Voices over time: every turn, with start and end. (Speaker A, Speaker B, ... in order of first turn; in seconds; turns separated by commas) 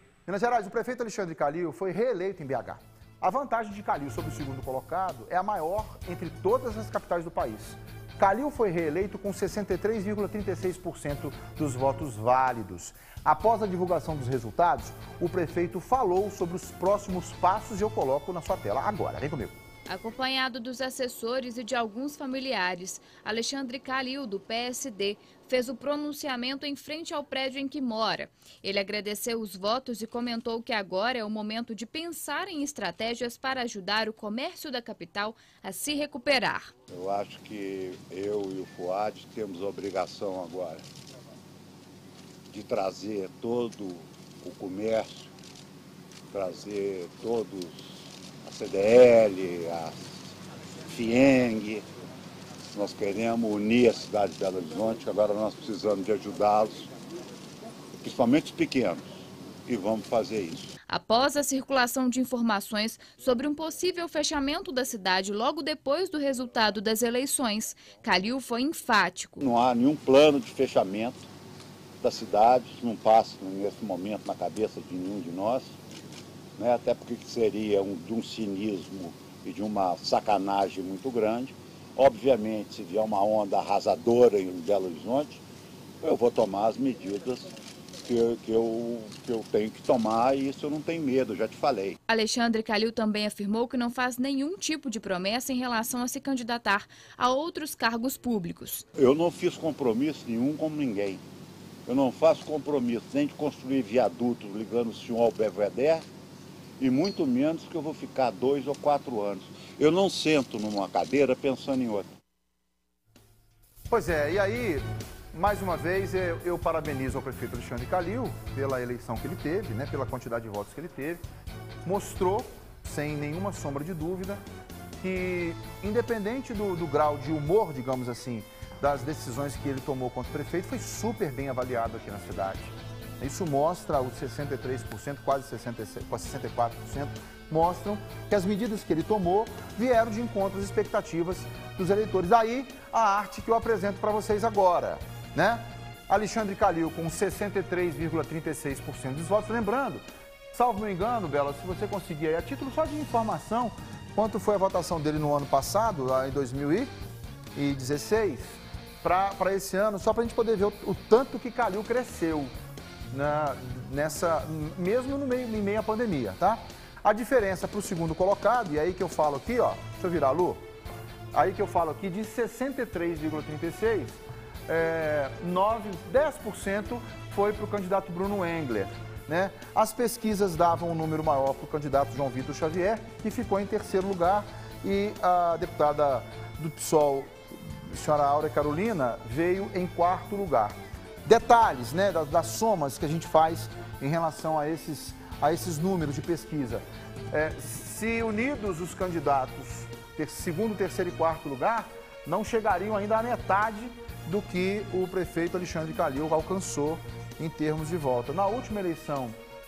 Speaker A: 0.2-19.6, Speaker B: 19.9-36.7, Speaker C: 36.9-40.9, Speaker C: 42.5-45.3, Speaker C: 46.3-50.2, Speaker C: 50.9-51.9, Speaker C: 52.7-56.9, Speaker C: 58.0-59.1, Speaker C: 59.6-60.7, Speaker B: 60.9-69.4, Speaker C: 69.4-71.3, Speaker C: 72.0-75.7, Speaker C: 76.6-85.4, Speaker C: 86.0-92.0, Speaker B: 92.1-98.8, Speaker C: 98.9-101.2, Speaker C: 101.8-106.0, Speaker C: 106.8-112.1, Speaker A: 113.9-121.2, Speaker A: 121.8-124.4, Speaker A: 125.0-150.0, Speaker A: 150.5-156.9, Speaker A: 157.5-162.5, Speaker A: 163.1-170.6, Speaker A: 171.3-209.3